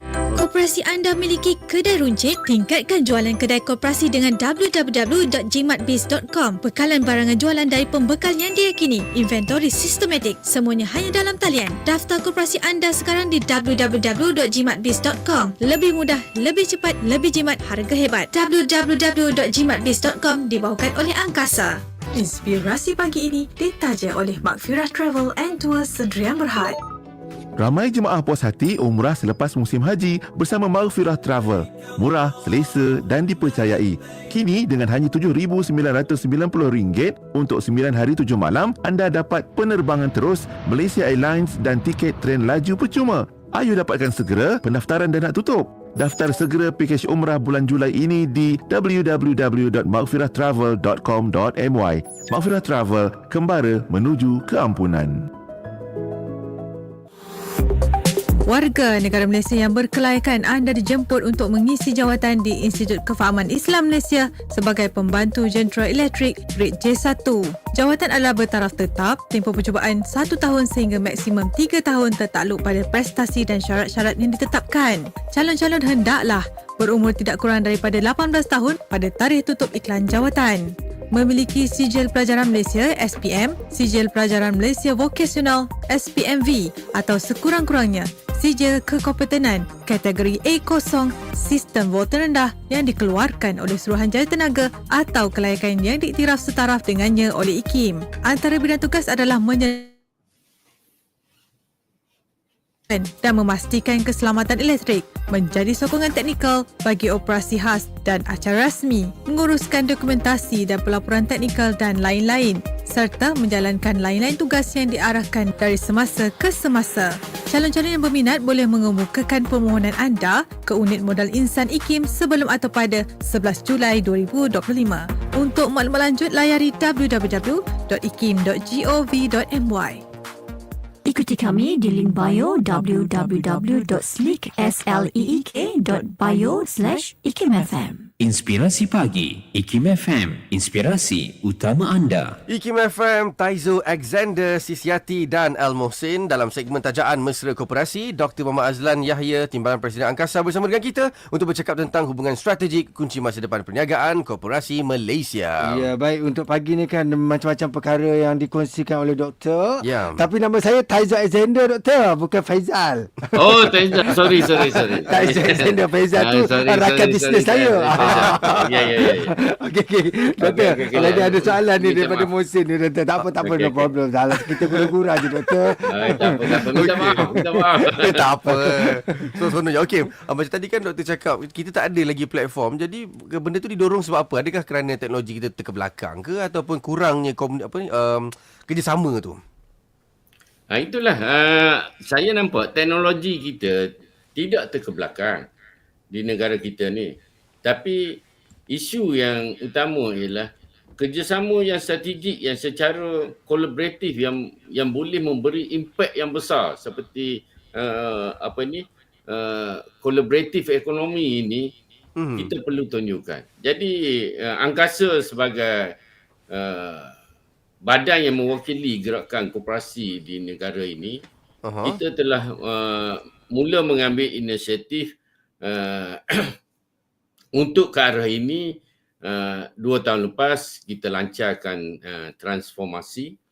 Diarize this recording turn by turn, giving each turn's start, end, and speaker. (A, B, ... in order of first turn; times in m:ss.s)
0:00.3-0:26.8 A
0:27.6-0:55.2 B
0:58.4-1:39.9 A
1:42.9-2:10.0 A
2:11.0-2:18.4 C
2:18.2-2:22.4 D
2:20.5-2:21.2 C
2:22.5-2:35.9 E
2:35.6-2:57.2 F
2:39.8-2:40.2 E
2:43.4-2:49.4 G
2:48.2-2:48.6 E
2:50.4-2:52.3 G
2:53.4-2:53.9 G
2:55.9-2:58.2 G
2:56.7-3:09.4 E
2:58.2-2:59.5 F
3:10.7-3:15.4 G
3:16.1-3:31.7 G
3:32.2-3:32.5 E
3:32.4-3:35.9 G
3:36.5-3:37.2 G
3:37.8-3:41.2 G
3:41.7-3:42.0 E
3:41.8-3:45.1 G
3:45.6-3:46.5 G
3:47.5-3:53.4 G